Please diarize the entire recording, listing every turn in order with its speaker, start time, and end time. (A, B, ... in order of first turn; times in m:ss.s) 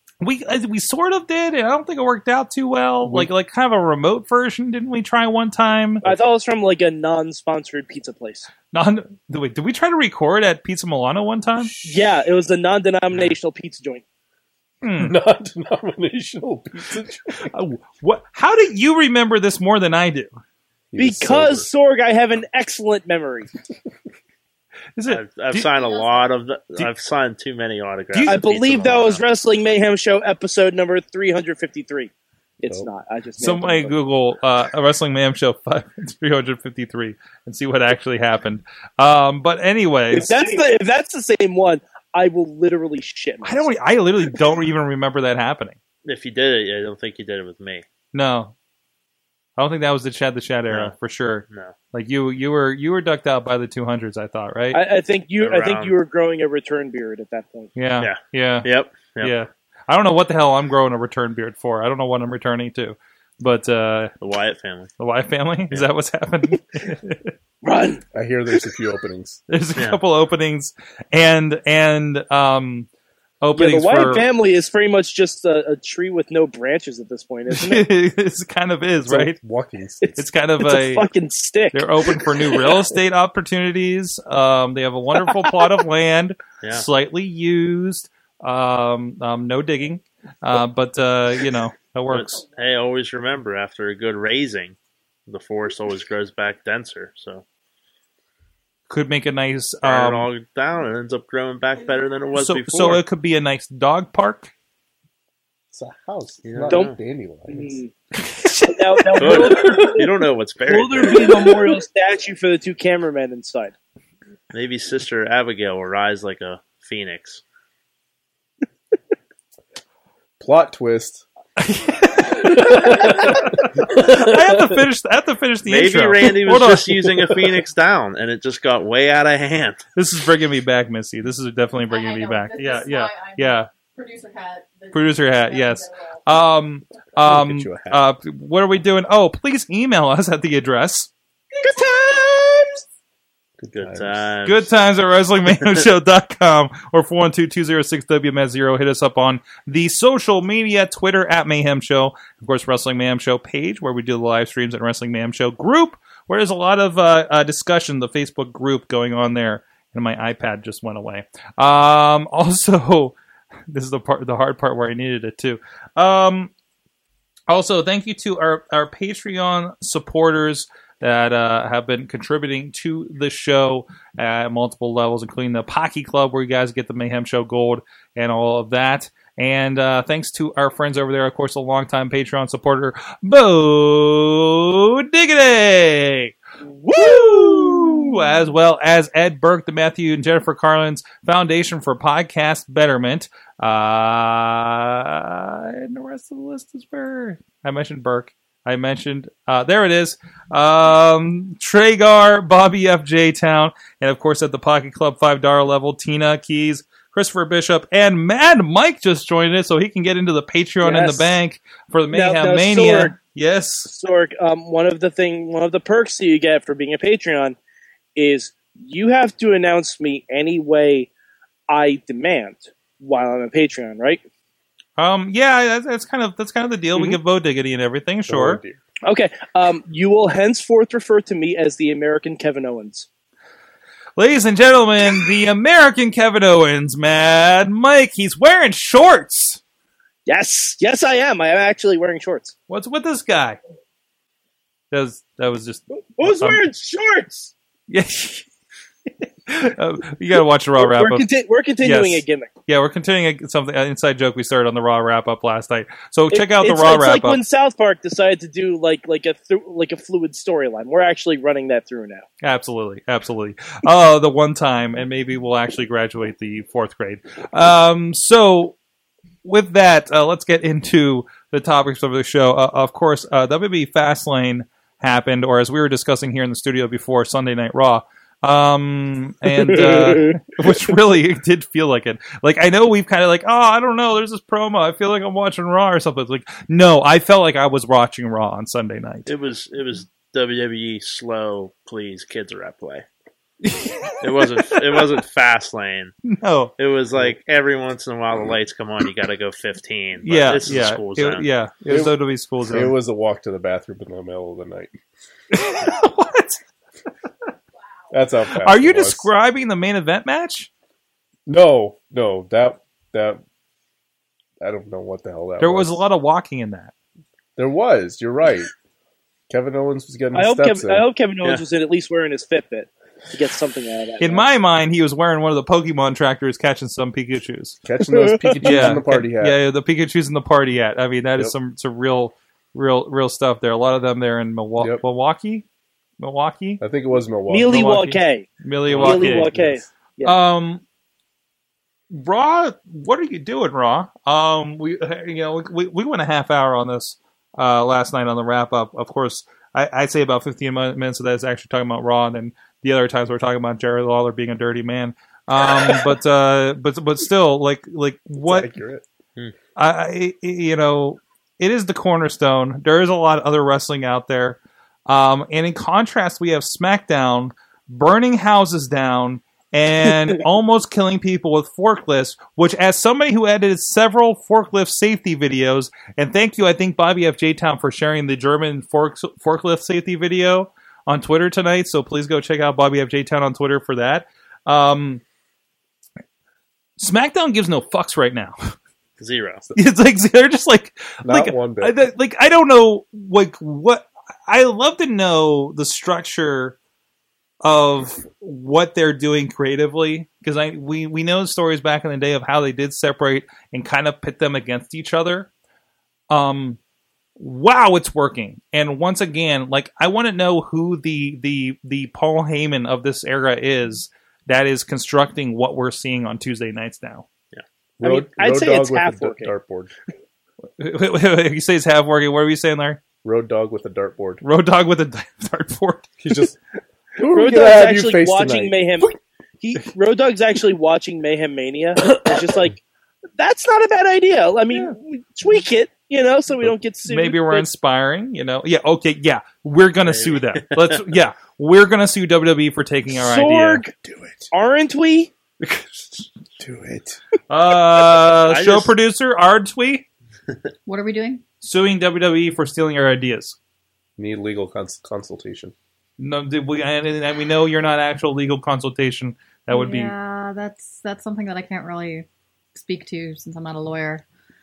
0:00.2-0:06.0 A
0:03.0-0:03.3 B
0:06.0-0:08.5 C
0:08.7-0:11.7 A
0:11.6-0:12.1 B
0:11.8-0:14.0 C
0:14.8-0:15.1 A
0:15.0-0:17.5 B
0:17.4-0:20.3 A
0:20.9-0:21.7 B
0:21.0-0:23.5 C
0:25.0-0:25.7 A
0:25.1-0:29.2 D
0:28.1-0:28.4 A
0:28.2-0:33.9 C
0:33.4-0:40.3 A
0:40.1-0:43.7 C
0:43.4-0:45.8 A
0:46.0-0:47.8 D
0:48.1-0:48.5 A
0:49.6-0:54.8 A
0:51.5-0:51.7 D
0:54.7-0:57.7 C
0:55.4-0:56.0 D
0:57.7-0:58.7 A
0:58.0-0:59.3 D
0:59.2-1:04.1 A
1:04.2-1:04.9 D
1:05.0-1:07.3 A
1:07.6-1:08.0 C
1:08.1-1:09.4 B
1:09.5-1:12.9 A
1:13.4-1:14.2 A
1:13.6-1:17.8 C
1:17.5-1:19.4 A
1:19.0-1:20.1 B
1:20.0-1:22.9 C
1:20.2-1:21.1 A
1:21.7-1:32.4 A
1:25.2-1:25.8 C
1:32.1-1:34.8 D
1:35.3-1:37.4 D
1:38.9-1:40.3 A
1:39.8-1:43.0 D
1:42.4-1:44.5 A
1:45.7-1:47.8 B
1:46.4-1:47.0 D
1:46.7-1:46.9 C
1:47.5-1:47.9 C
1:48.1-1:49.7 A
1:48.7-1:53.7 C
1:49.2-1:51.5 D
1:54.5-1:57.4 D
2:00.4-2:01.2 B
2:01.6-2:07.4 A
2:02.4-2:03.4 B
2:03.9-2:04.3 B
2:05.6-2:09.8 D
2:10.0-2:13.7 A
2:11.9-2:16.2 E
2:14.9-2:21.1 A
2:17.2-2:18.0 B
2:21.6-2:22.8 C
2:23.6-2:24.3 B
2:23.7-2:24.7 D
2:24.4-2:43.1 A
2:25.5-2:25.8 D
2:43.7-2:46.5 A
2:47.5-3:06.3 A
3:06.6-3:08.1 C
3:06.9-3:33.9 A
3:30.8-3:31.4 C
3:32.1-3:33.1 C
3:33.8-3:37.6 C
3:38.2-3:41.1 C
3:41.7-3:44.2 C
3:45.0-3:48.6 A
3:48.3-3:48.8 B
3:49.0-3:53.1 C
3:54.2-3:59.6 A
4:00.2-4:02.5 C
4:02.7-4:03.6 A
4:04.9-4:06.6 A
4:06.2-4:07.5 C
4:07.9-4:08.4 A
4:09.2-4:11.3 A
4:10.8-4:12.5 C
4:11.8-4:17.4 A
4:16.3-4:22.2 C
4:22.4-4:28.8 A
4:29.4-4:49.3 A
4:39.5-4:40.4 C
4:49.3-4:53.0 D
4:53.6-4:54.5 A
4:54.2-4:56.1 D
4:56.2-4:56.7 A
4:56.8-5:01.4 D
5:00.2-5:03.0 A
5:01.9-5:04.9 B
5:05.5-5:06.6 A
5:08.1-5:09.3 B
5:08.6-5:10.7 A
5:11.4-5:13.4 B
5:14.6-5:16.0 B
5:15.6-5:16.9 A
5:17.6-5:18.7 B
5:19.5-5:21.1 B
5:20.3-5:24.4 C
5:24.2-5:27.8 A
5:27.8-5:29.6 B
5:28.1-5:28.9 C
5:28.6-5:35.6 A
5:36.2-5:36.8 A
5:36.8-5:38.0 B
5:37.5-5:40.3 C
5:37.7-5:39.5 A
5:38.9-5:39.9 B
5:40.2-5:40.8 A
5:42.1-5:58.7 A
5:58.4-5:59.0 B
5:59.8-6:25.2 A
6:27.0-6:28.7 A
6:29.2-6:29.6 D
6:29.8-6:36.8 A
6:31.2-6:32.0 B
6:37.6-6:45.5 A
6:46.3-6:46.8 A
6:47.4-6:57.2 A
6:58.0-6:59.9 B
6:58.0-6:59.5 C
7:00.8-7:03.0 A
7:03.2-7:04.4 B
7:04.4-7:06.1 A
7:06.2-7:06.6 B
7:07.2-7:09.0 B
7:07.2-7:12.8 C
7:12.2-7:12.5 B
7:13.4-7:17.7 C
7:17.0-7:23.8 A
7:20.0-7:21.0 D
7:23.1-7:24.0 C
7:24.0-7:24.5 B
7:24.5-7:25.3 C
7:26.6-7:27.2 B
7:27.5-7:30.0 A
7:28.4-7:28.9 D
7:30.8-7:31.4 E
7:31.6-7:33.6 A
7:34.2-7:35.7 B
7:36.2-7:40.1 A
7:39.7-7:44.2 E